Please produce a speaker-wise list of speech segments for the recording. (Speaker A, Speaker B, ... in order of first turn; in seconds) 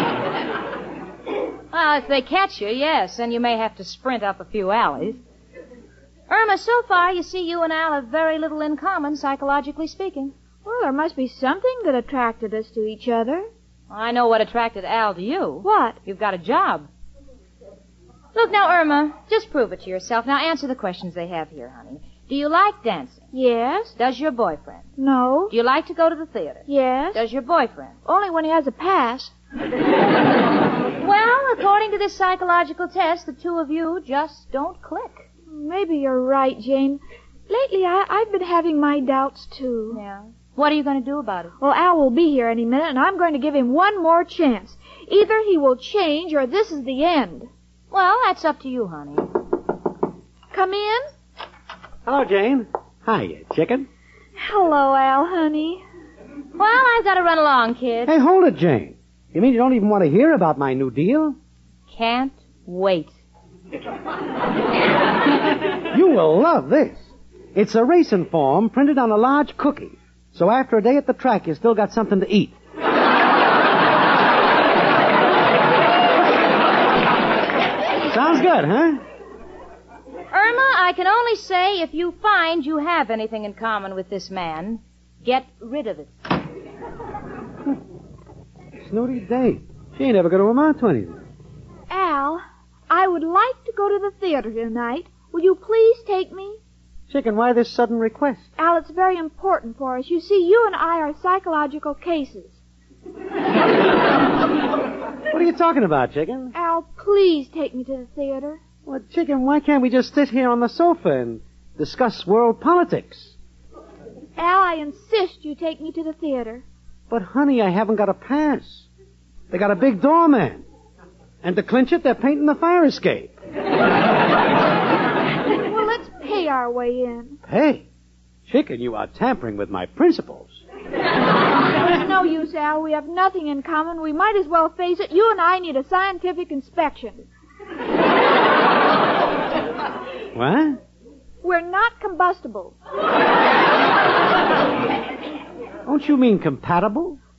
Speaker A: 1.7-5.2, 6.3-10.3, 13.9-16.9, 18.4-23.2, 24.0-24.9, 25.5-27.9, 31.0-35.3, 39.9-41.5, 47.9-49.3, 56.6-58.1, 61.9-63.1, 80.3-86.2
Speaker B: 10.6-13.5, 15.6-16.0, 23.3-23.9, 25.0-25.5, 26.7-27.2, 28.0-29.3, 35.5-40.0, 41.6-47.5, 50.5-51.1, 54.4-55.8, 91.9-96.6, 98.6-102.6, 106.5-108.6, 114.4-116.6, 125.7-127.4, 131.8-137.3, 141.4-142.8
Speaker C: 52.0-53.9, 58.1-61.4, 65.9-72.5, 78.0-79.0, 88.8-91.2, 97.1-98.5, 105.3-106.5, 108.8-113.3, 117.1-118.9, 119.5-120.6, 121.4-123.3, 127.5-127.8, 128.5-130.6, 140.3-140.8, 145.8-147.2